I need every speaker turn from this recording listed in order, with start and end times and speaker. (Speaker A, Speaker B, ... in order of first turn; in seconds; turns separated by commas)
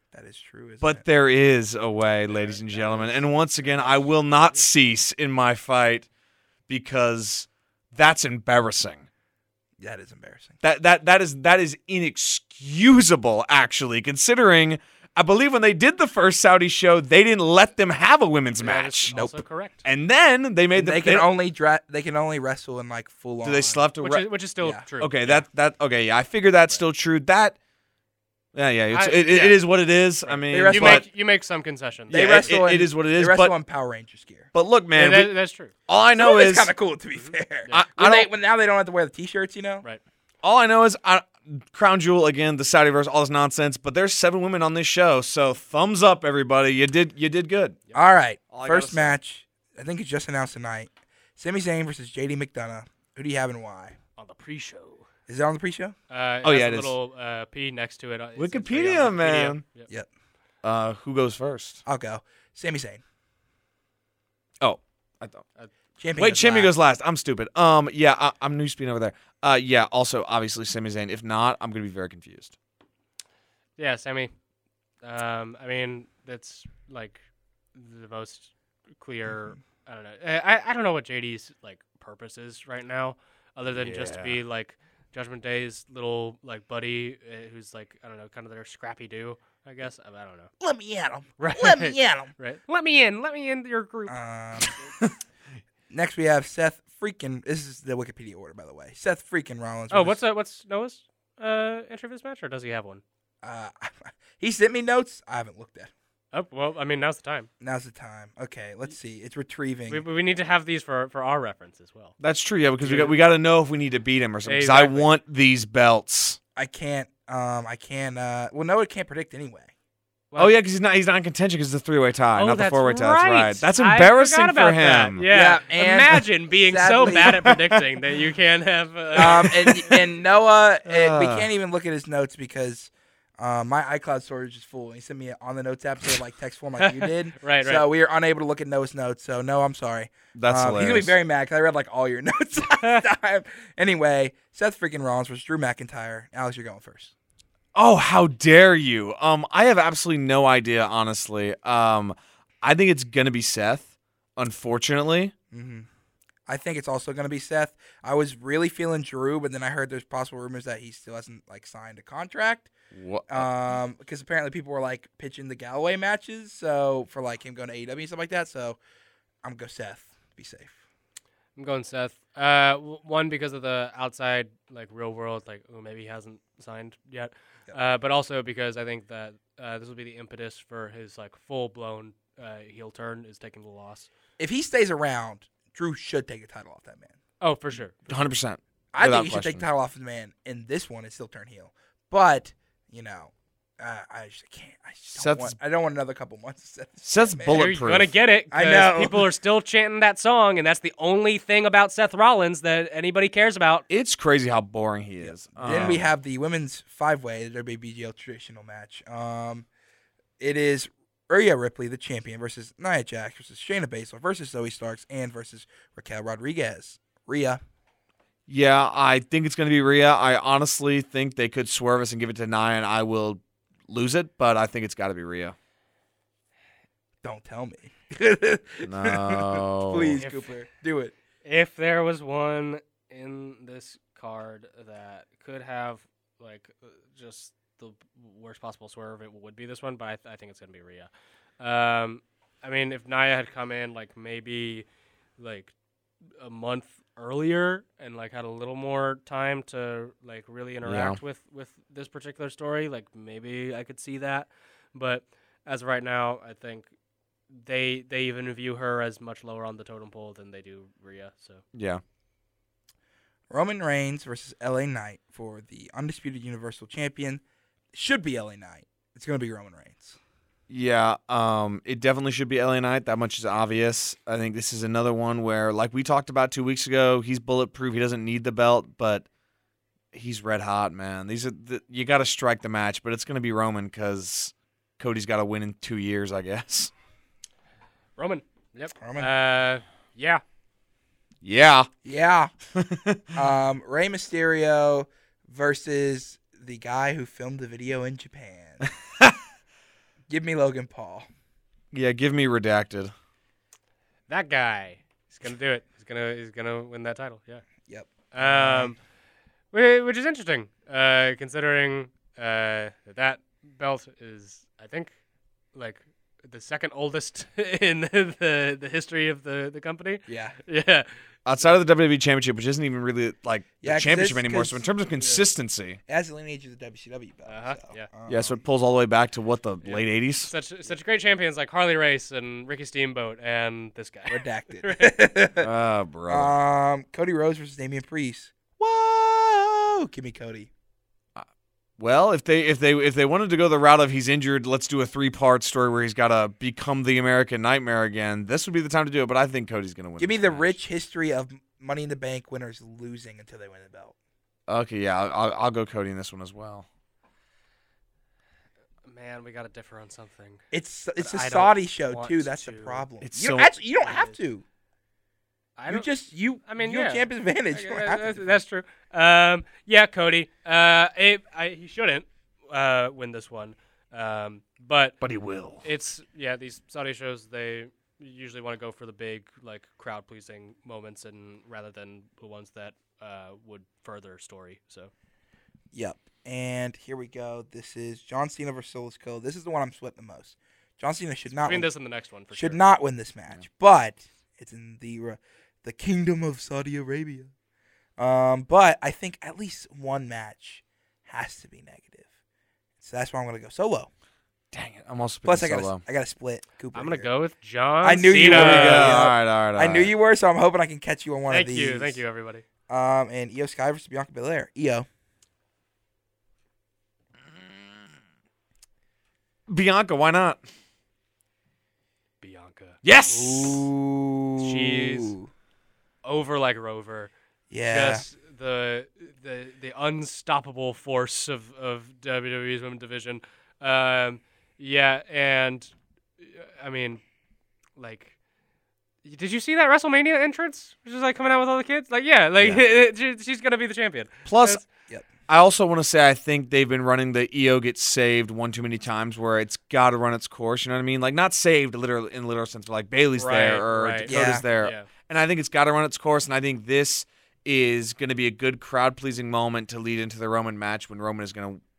Speaker A: 0.1-1.0, Speaker B: 0.8-6.1, Speaker C: 2.3-4.7, Speaker B: 6.7-9.1, Speaker A: 9.8-10.6, Speaker B: 10.6-19.1, Speaker C: 18.6-19.9, Speaker A: 19.1-19.4, Speaker B: 19.9-21.3, Speaker A: 20.8-23.8, Speaker B: 23.4-24.3, Speaker C: 24.0-25.5, Speaker B: 25.0-27.6, Speaker B: 28.5-31.1, Speaker C: 28.9-29.6, Speaker C: 30.2-32.5, Speaker A: 30.5-31.1, Speaker B: 32.1-33.5, Speaker A: 32.1-34.5, Speaker B: 34.5-35.3, Speaker C: 35.0-35.7, Speaker B: 35.9-36.7, Speaker A: 36.2-39.9, Speaker C: 37.2-37.8, Speaker B: 37.7-38.3, Speaker B: 40.4-47.8, Speaker A: 47.9-54.0, Speaker B: 48.5-49.2, Speaker C: 54.2-55.0, Speaker A: 55.3-56.0, Speaker C: 56.1-59.9, Speaker B: 56.4-56.9, Speaker B: 58.4-59.6, Speaker B: 60.6-61.8, Speaker A: 61.9-63.0, Speaker B: 64.6-65.5, Speaker A: 66.0-66.7, Speaker B: 66.2-72.5, Speaker C: 73.8-74.3, Speaker C: 75.0-90.5, Speaker B: 83.7-84.4, Speaker A: 90.6-92.3, Speaker C: 91.4-94.2, Speaker A: 94.1-94.7, Speaker A: 95.9-100.2, Speaker C: 99.9-103.0, Speaker A: 103.4-105.9, Speaker C: 106.3-107.5, Speaker A: 107.6-110.0, Speaker C: 109.9-112.1, Speaker B: 112.2-116.4, Speaker C: 112.8-113.2, Speaker C: 114.5-115.1, Speaker A: 116.6-119.7, Speaker B: 120.4-125.2, Speaker C: 122.4-130.0, Speaker A: 125.3-127.6, Speaker B: 127.2-127.5, Speaker A: 129.2-147.1, Speaker B: 129.2-129.8, Speaker B: 130.8-131.5, Speaker C: 136.8-137.9, Speaker B: 140.3-141.1, Speaker C: 142.8-143.1, Speaker B: 147.8-155.3, Speaker A: 155.5-155.9, Speaker A: 156.5-162.7, Speaker B: 162.9-163.5, Speaker A: 163.3-168.8, Speaker A: 169.4-170.8, Speaker C: 171.6-184.1, Speaker A: 184.4-187.2, Speaker C: 187.4-188.3, Speaker B: 188.1-189.7, Speaker A: 188.9-197.7, Speaker B: 195.1-195.6, Speaker B: 197.1-198.1, Speaker C: 197.5-203.8, Speaker A: 198.5-199.3, Speaker B: 203.9-206.1, Speaker A: 205.2-209.7, Speaker A: 210.4-217.6, Speaker B: 218.5-225.6, Speaker A: 227.2-231.1, Speaker B: 228.8-230.2, Speaker C: 230.2-230.5, Speaker C: 231.4-244.9, Speaker C: 245.4-245.7, Speaker C: 246.4-256.9, Speaker B: 250.8-251.2, Speaker C: 257.5-261.6, Speaker B: 261.7-262.0, Speaker A: 263.5-270.2, Speaker B: 270.7-279.3, Speaker B: 280.1-286.9, Speaker C: 288.2-290.4, Speaker A: 289.0-289.3, Speaker B: 291.4-291.9, Speaker A: 292.1-292.5, Speaker B: 292.8-293.2, Speaker A: 293.4-298.9, Speaker A: 300.3-301.3, Speaker B: 301.9-303.1, Speaker C: 304.3-307.6, Speaker A: 307.9-309.0, Speaker C: 308.3-309.0, Speaker C: 309.7-315.1, Speaker C: 315.7-321.1, Speaker A: 320.3-320.6, Speaker B: 321.5-326.0, Speaker A: 323.8-324.8, Speaker A: 326.1-328.6, Speaker C: 327.5-328.1, Speaker B: 328.3-330.5, Speaker C: 329.8-335.1, Speaker A: 334.3-335.7, Speaker B: 335.6-336.5, Speaker A: 336.3-340.7, Speaker B: 342.0-350.7, Speaker A: 350.2-354.1, Speaker B: 354.7-356.9, Speaker C: 359.1-360.6, Speaker A: 360.7-364.6, Speaker C: 361.2-363.1, Speaker B: 363.2-363.7, Speaker C: 364.0-364.4, Speaker C: 365.8-366.1, Speaker A: 365.9-368.6, Speaker C: 366.7-375.2, Speaker B: 375.2-375.9, Speaker C: 375.8-385.1, Speaker A: 385.9-391.9, Speaker C: 391.6-392.8, Speaker A: 392.5-397.5, Speaker A: 398.2-402.3, Speaker A: 403.0-404.1, Speaker B: 404.7-406.0, Speaker A: 405.4-407.3, Speaker C: 406.9-409.1, Speaker A: 408.0-412.2, Speaker B: 408.5-410.1, Speaker C: 411.5-412.6, Speaker A: 412.9-415.1, Speaker B: 419.7-420.6, Speaker C: 422.4-423.0, Speaker B: 423.0-423.9, Speaker A: 423.3-425.5, Speaker C: 424.6-425.4, Speaker C: 426.2-427.3, Speaker A: 427.7-428.3, Speaker C: 427.9-437.2, Speaker C: 438.0-438.4, Speaker C: 439.2-444.8, Speaker B: 444.5-444.8, Speaker B: 445.5-461.8, Speaker C: 453.4-455.1, Speaker A: 454.3-454.6